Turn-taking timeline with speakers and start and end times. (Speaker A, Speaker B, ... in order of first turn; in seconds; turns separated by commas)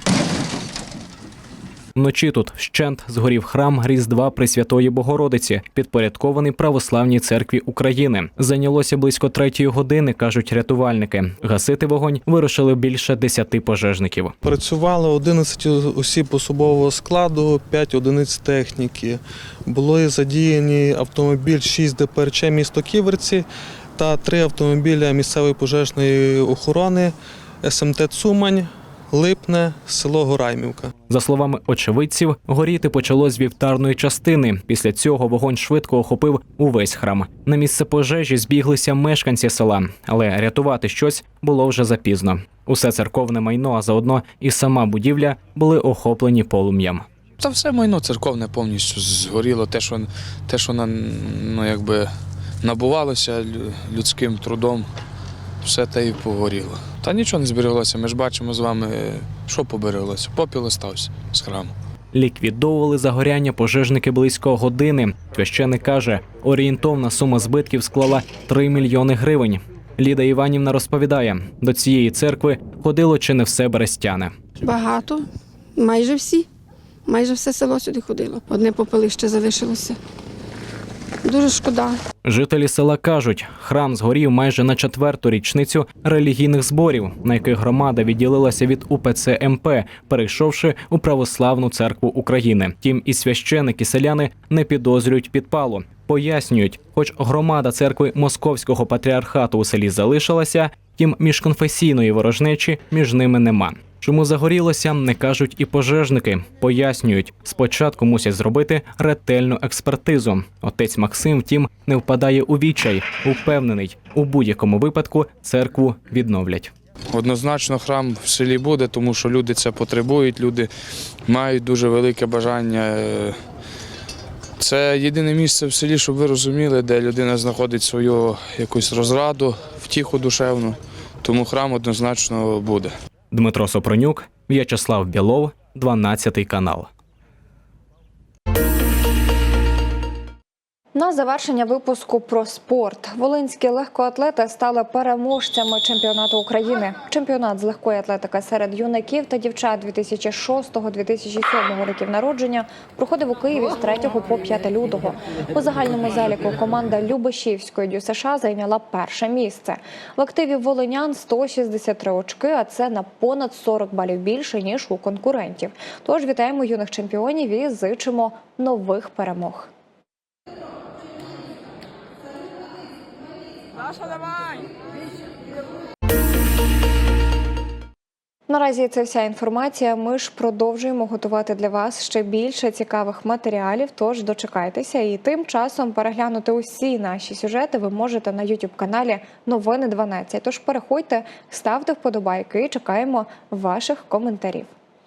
Speaker A: 1.9-14.3, Speaker B: 14.4-23.4, Speaker B: 24.0-30.9, Speaker A: 31.1-47.0, Speaker C: 47.4-52.1, Speaker C: 52.6-54.9, Speaker C: 55.6-61.7, Speaker A: 62.1-74.3, Speaker D: 74.6-76.5, Speaker D: 77.0-80.0, Speaker D: 81.2-82.0, Speaker A: 82.2-116.7, Speaker C: 117.1-120.7, Speaker C: 121.3-123.4, Speaker C: 124.6-132.9, Speaker A: 133.3-136.9, Speaker E: 140.9-169.7, Speaker E: 178.5-194.7